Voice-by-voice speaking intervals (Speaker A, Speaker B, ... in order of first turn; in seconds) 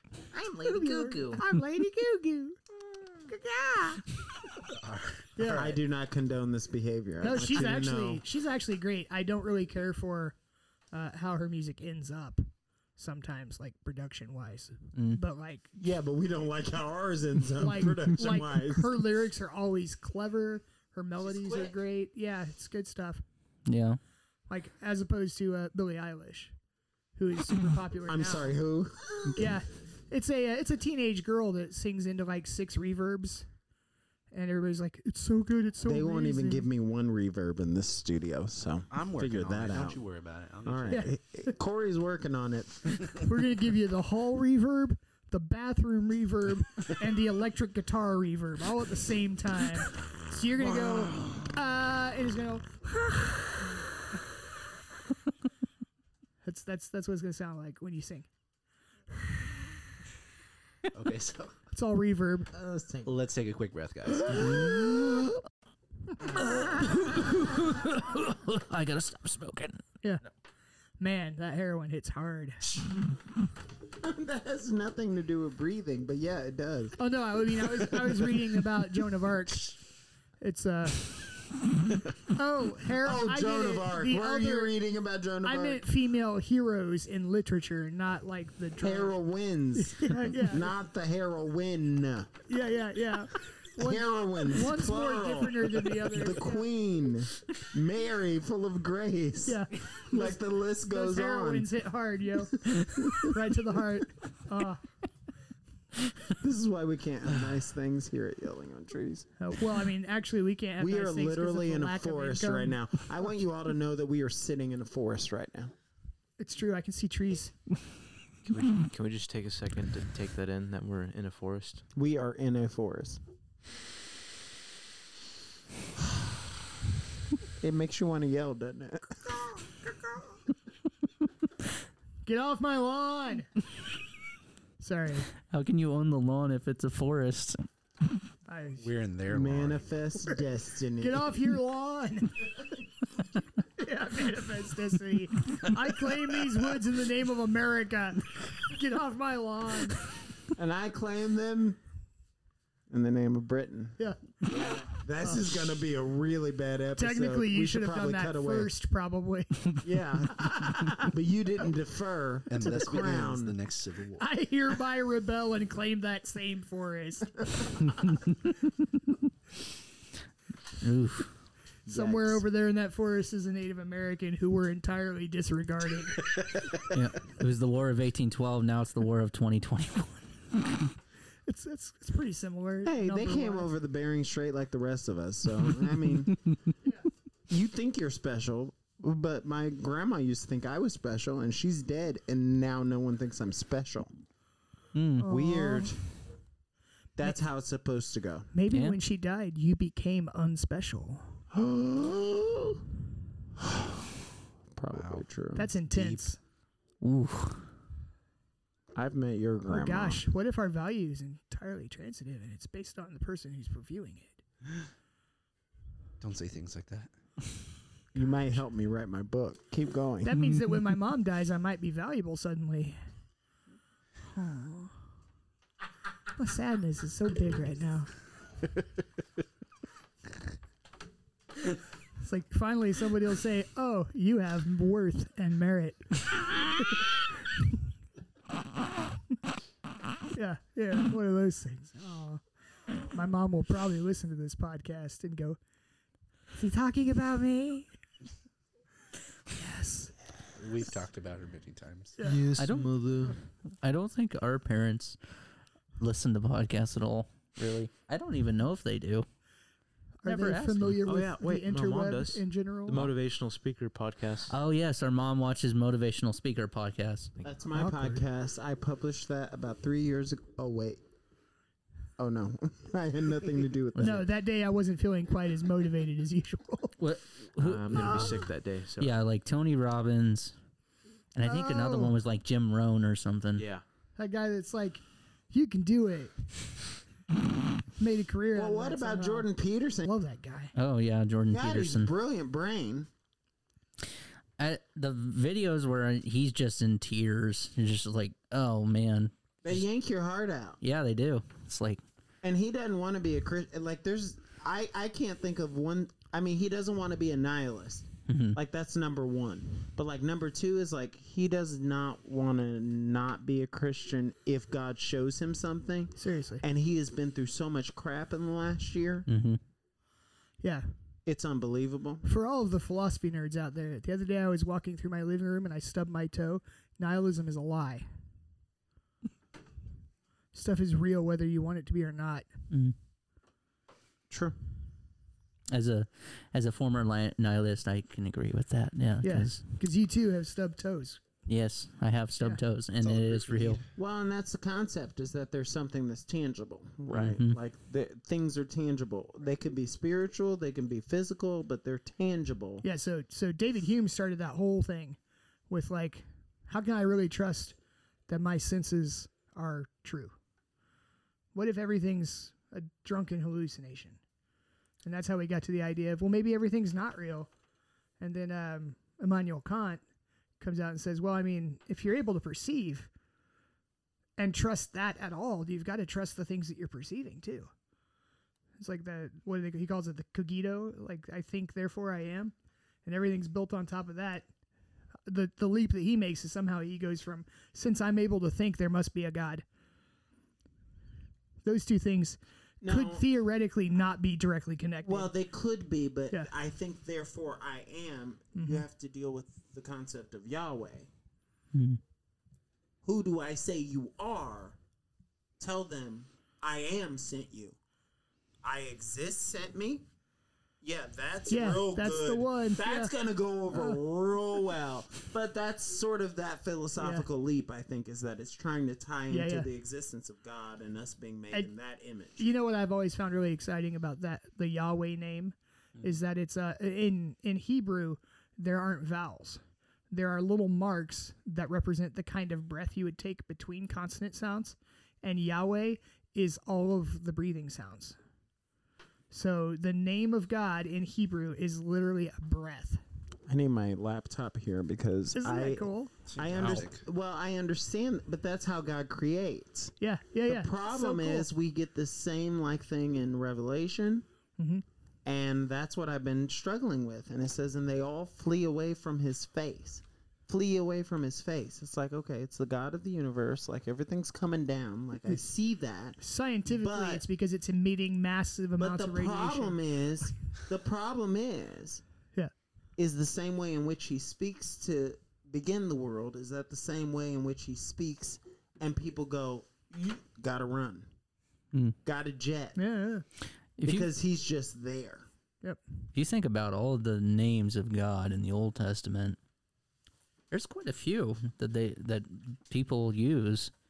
Speaker A: 0.3-1.4, 5.5-8.2, 15.8-18.9, 21.3-21.7, 28.1-29.5, 35.8-40.0, 40.6-43.1, 62.5-63.2, 64.3-65.3, 74.0-77.0, 77.7-78.3, 83.0-85.8, 88.8-92.4, 93.8-101.7, 102.7-103.3, 106.2-109.3, 110.8-115.7, 121.9-123.2, 127.6-129.4, 139.3-141.3, 150.5-151.8, 152.9-158.7, 159.8-163.6, 171.9-172.4, 182.8-186.4, 187.5-194.1, 195.2-196.0, 197.2-198.5, 201.5-202.8, 204.7-205.7, 208.9-210.2, 218.1-220.4, 267.4-271.0, 272.2-274.2, 288.5-290.1, 291.5-293.1, 299.6-300.8, 302.4-319.3, 321.2-322.2, 334.3-334.6, 343.9-352.8, 392.8-393.2, 395.0-401.1, 403.0-404.8, 405.6-407.8, 408.6-410.1, 410.8-422.4, 443.5-449.9, 450.5-454.2, 455.2-467.2, 468.8-472.0, 473.0-481.1, 482.0-482.8, 483.8-485.2
Speaker B: 0.6-2.6, 3.2-4.0, 5.3-5.8, 7.2-10.4, 10.9-12.4, 13.0-15.7, 17.6-23.2, 24.5-26.5, 27.1-28.6, 29.3-33.5, 34.3-36.7, 40.9-41.5, 43.2-53.8, 56.4-58.3, 61.7-62.5, 71.0-72.7, 77.0-79.8, 80.4-81.1, 82.3-84.7, 85.4-89.2, 89.8-90.7, 92.5-96.7, 99.4-104.8, 109.4-112.8, 116.4-117.5, 132.2-133.5, 134.8-135.3, 138.5-138.9, 141.0-142.6, 143.8-150.0, 154.0-155.5, 156.9-159.8, 164.2-167.8, 171.9-176.2, 181.4-183.7, 195.2-195.9, 198.5-201.4, 205.5-206.4, 209.6-214.4, 220.2-223.0, 224.3-224.9, 226.4-228.1, 232.2-237.6, 240.3-242.4, 243.1-245.6, 246.5-247.9, 249.5-250.1, 252.2-252.4, 260.2-263.1, 267.7-268.2, 274.0-276.9, 281.4-282.1, 284.2-286.3, 288.0-289.5, 290.1-290.7, 316.1-316.6, 320.6-320.9, 322.2-328.1, 330.5-332.5, 339.2-341.2, 352.8-355.2, 355.7-357.8, 358.3-360.4, 361.5-364.2, 365.0-367.5, 368.2-370.0, 370.6-373.1, 374.4-377.7, 378.8-382.5, 383.0-384.5, 385.2-389.6, 391.6-395.3, 398.5-398.8, 411.5-413.1, 413.7-414.0, 417.0-417.2, 419.3-419.7, 422.4-438.2, 439.3-443.0, 445.3-446.1, 450.0-451.5, 454.6-454.8, 466.2-469.8, 482.8-483.2
Speaker C: 4.7-5.6, 38.9-41.0, 50.6-51.6, 60.9-61.5, 63.0-64.7, 138.8-139.8, 162.5-164.3, 204.9-205.2, 205.9-206.2, 216.2-217.1, 250.6-252.2, 343.0-343.8, 446.3-447.0
Speaker D: 23.6-24.0, 66.4-69.8, 135.5-137.6, 167.9-168.6, 170.8-171.3, 176.9-180.2, 194.9-195.3, 198.7-199.0, 207.0-207.7, 252.6-255.2, 256.0-259.2, 260.2-261.0, 264.5-267.3, 277.0-278.5, 279.0-280.5, 281.3-283.6, 290.7-292.1, 294.6-299.3, 300.8-302.0, 308.3-308.6, 319.3-319.6, 332.7-332.9, 335.7-339.6, 341.5-343.8, 347.2-347.6, 401.7-402.0, 483.8-484.1, 486.1-489.4, 490.5-493.7
Speaker E: 118.4-121.8, 252.2-253.4, 261.0-264.6, 277.6-279.1, 283.6-283.8